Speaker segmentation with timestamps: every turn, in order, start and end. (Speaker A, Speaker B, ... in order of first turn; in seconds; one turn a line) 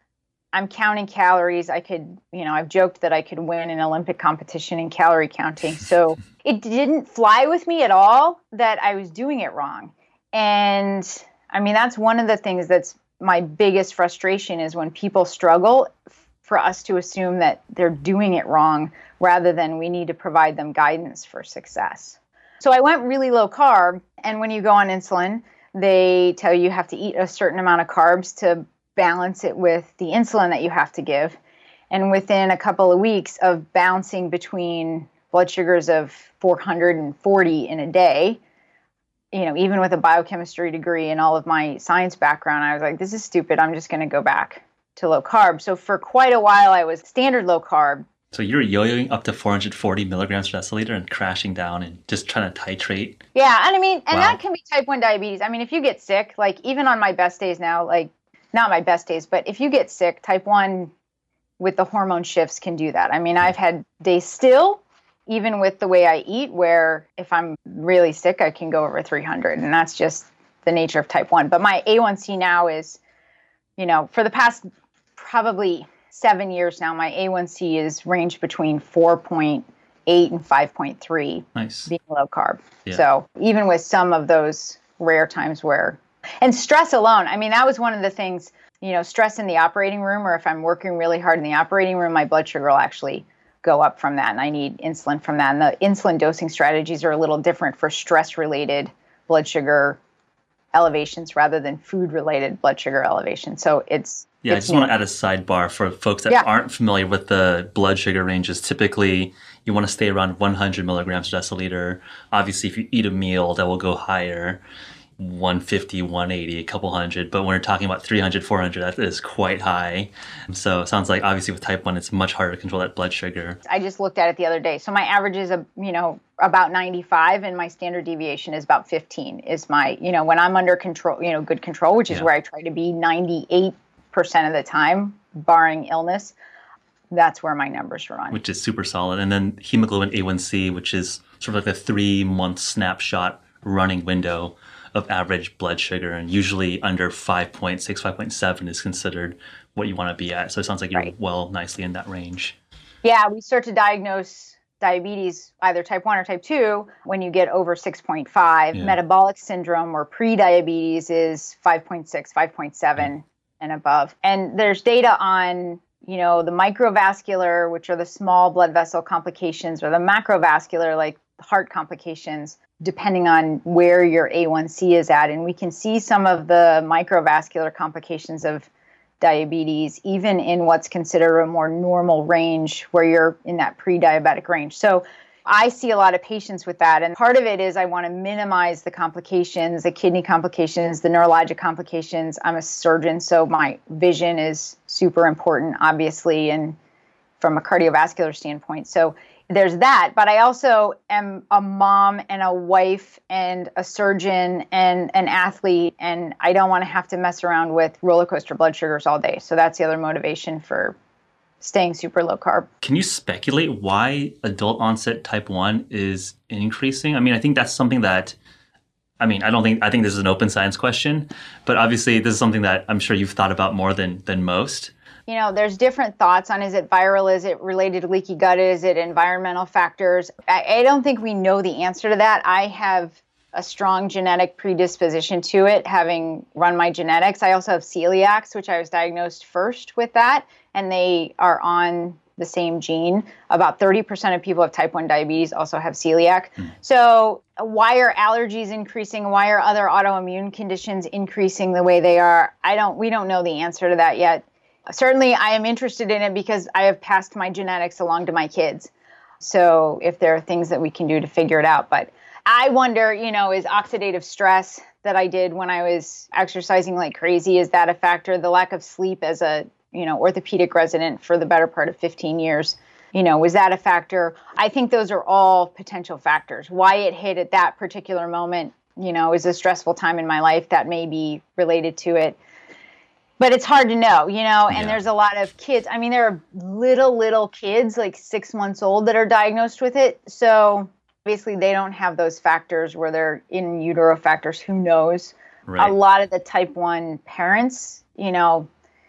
Speaker A: 0.5-31.4
Speaker A: 31.9-38.4
Speaker A: 39.3-48.0
Speaker B: 48.3-53.2
Speaker A: 53.3-60.9
Speaker B: 54.1-54.4
Speaker A: 61.6-73.0
Speaker A: 73.8-100.0
Speaker B: 81.5-81.9
Speaker A: 100.7-104.9
Speaker B: 104.4-114.6
Speaker B: 115.2-123.6
Speaker A: 123.6-136.3
Speaker A: 137.1-138.4
Speaker B: 138.3-152.6
Speaker A: 153.0-178.7
Speaker A: 179.2-196.8
Speaker A: 197.4-210.9
Speaker A: 211.6-212.7
Speaker B: 212.8-218.3
Speaker B: 219.2-224.9
Speaker A: 225.3-282.4
Speaker A: 283.4-298.7
Speaker B: 284.7-285.0
Speaker B: 295.7-295.9